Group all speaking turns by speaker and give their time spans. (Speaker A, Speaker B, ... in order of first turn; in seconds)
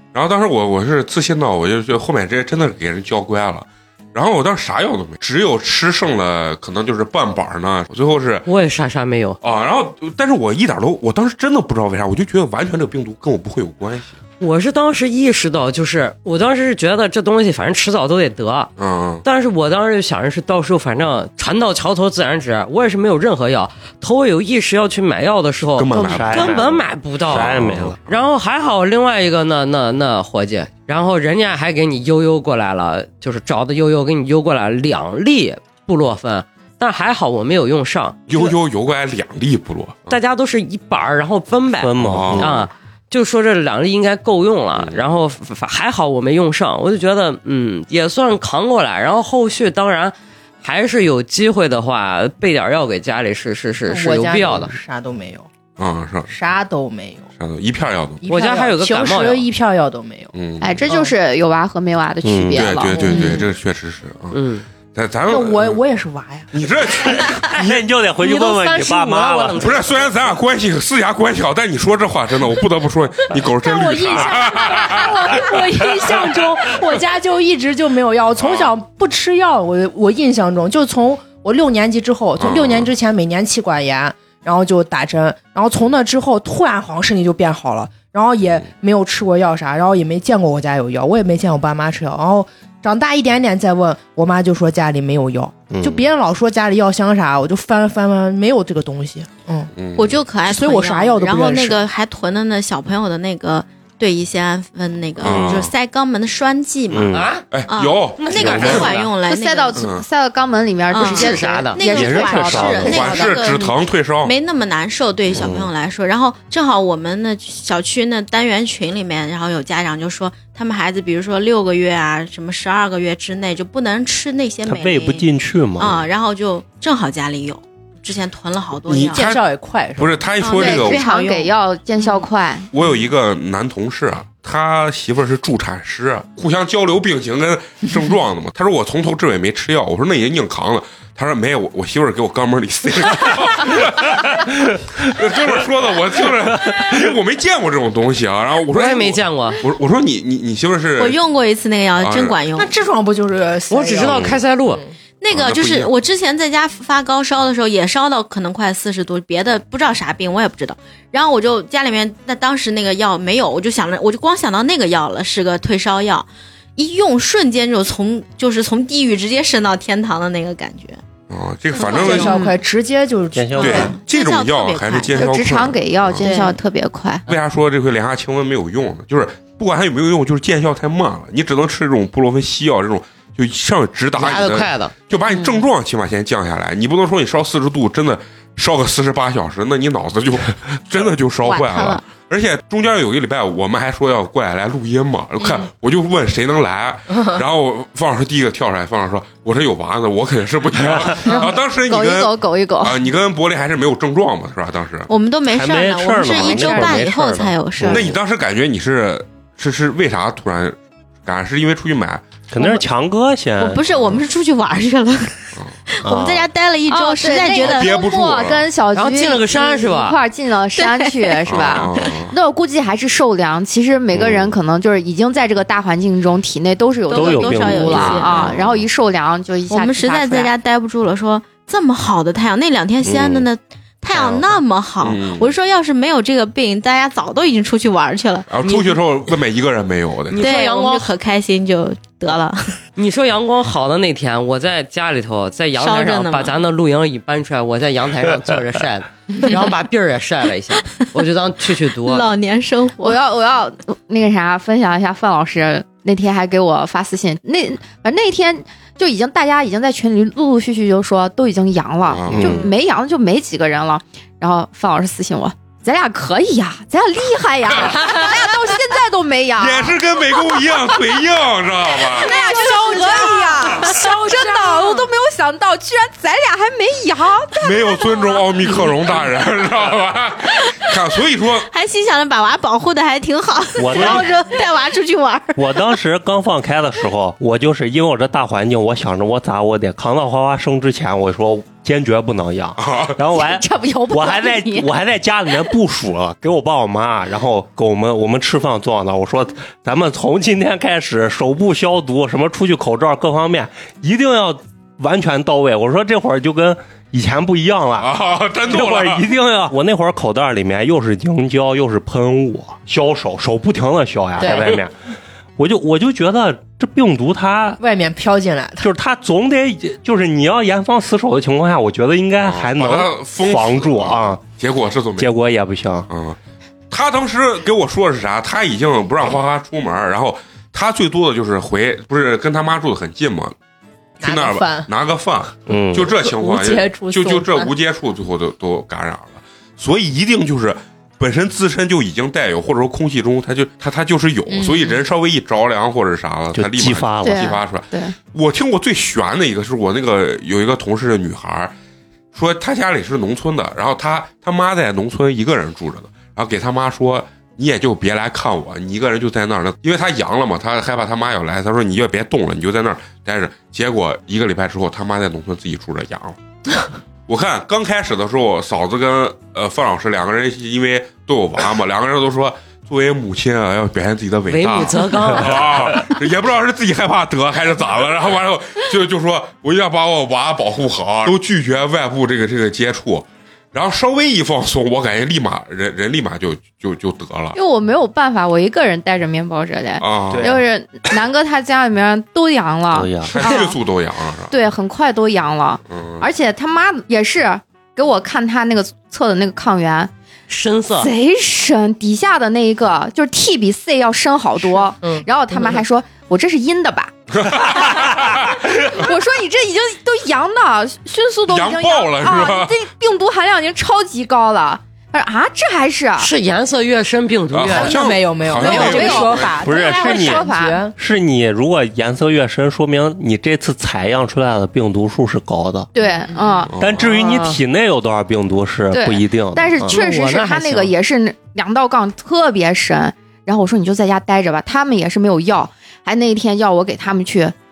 Speaker A: 0.1-8.4, 9.4-14.2, 18.8-19.2, 25.8-26.6, 27.5-27.9, 38.3-40.2, 42.0-42.5, 44.8-45.0, 55.8-56.3, 57.4-58.2, 60.3-60.9, 62.5-64.4, 64.9-65.8, 66.5-67.8, 69.6-75.6, 78.4-78.7, 82.4-82.9, 99.8-100.2, 105.2-105.7, 107.5-108.9, 109.8-110.0, 112.9-114.3, 128.9-129.4, 129.9-131.0, 132.7-151.2, 152.0-152.4, 155.3-155.9, 171.3-172.4, 173.6-176.3, 177.3-205.1, 207.8-212.2, 217.6-218.7, 221.5-222.3, 224.1-224.6, 228.1-228.8, 235.0-235.5, 238.5-240.4, 262.1-262.6, 267.7-268.0, 269.6-272.3, 277.6-281.7, 283.9-284.2, 292.8-293.2, 308.0-309.3, 322.4-325.3, 326.1-326.4, 326.9-333.5, 334.2-351.7, 352.3-366.4, 367.3-387.6, 390.0-390.6, 393.3-394.5, 395.9-396.3, 407.3-408.8, 411.5-412.8, 417.5-419.5, 426.7-427.1
Speaker B: 8.4-9.4, 14.4-18.7, 19.2-38.5, 40.1-54.7, 58.3-59.5, 64.3-64.6, 68.2-70.0, 107.1-107.4, 108.2-109.1, 111.0-111.8, 148.7-149.6, 153.7-154.8, 184.2-184.9, 218.9-220.2, 238.7-238.9, 240.3-241.1, 242.9-252.3, 374.5-375.7, 400.5-401.1, 416.2-418.1, 427.0-427.6, 429.9-430.9
Speaker C: 25.9-28.0, 41.8-42.7, 62.2-62.8, 67.5-69.8, 95.7-96.1, 106.9-107.3, 108.4-108.9, 111.9-113.0, 115.3-115.7, 124.7-126.0, 173.3-173.9, 205.5-208.1, 212.5-213.8, 216.0-216.5, 227.1-228.2, 233.0-233.5, 262.3-262.7, 283.8-284.3, 285.6-308.1, 308.7-314.9, 315.6-317.8, 318.8-324.4, 325.2-326.1, 335.7-336.1, 346.5-347.5, 390.3-390.6, 392.9-393.4, 419.6-425.9, 426.8-430.0
Speaker D: 53.9-55.5, 56.3-57.3, 58.2-60.3, 60.9-61.1, 62.9-63.4, 65.3-66.5, 73.6-99.7, 100.5-101.8, 112.8-113.3, 129.1-130.2, 130.8-131.4, 152.6-154.9, 171.8-173.9, 273.8-275.0, 314.4-314.8, 317.8-318.9, 334.2-334.9, 336.2-337.7, 344.5-345.0, 404.6-405.8, 417.7-420.9
Speaker E: 60.6-63.4, 109.2-113.3, 130.6-132.7, 172.3-172.5, 173.6-173.9, 175.1-177.2, 201.3-203.0, 216.9-230.5, 253.0-270.0, 272.1-278.2, 293.3-294.9, 347.2-348.1, 387.5-393.8, 394.5-400.1, 400.9-407.1, 408.4-416.3, 418.5-420.9, 425.9-426.8, 428.9-437.5
Speaker F: 100.0-107.1, 107.7-109.8, 110.9-125.2, 125.8-129.3, 130.4-131.4, 151.0-152.8, 155.2-171.0, 171.7-172.5, 173.6-175.6, 176.2-176.6, 191.4-192.0, 205.1-208.1, 213.6-218.0, 220.8-222.0, 227.1-228.6, 229.7-238.5, 240.4-242.8, 245.8-246.5, 252.0-253.2, 272.0-274.2, 280.6-280.9, 281.7-285.9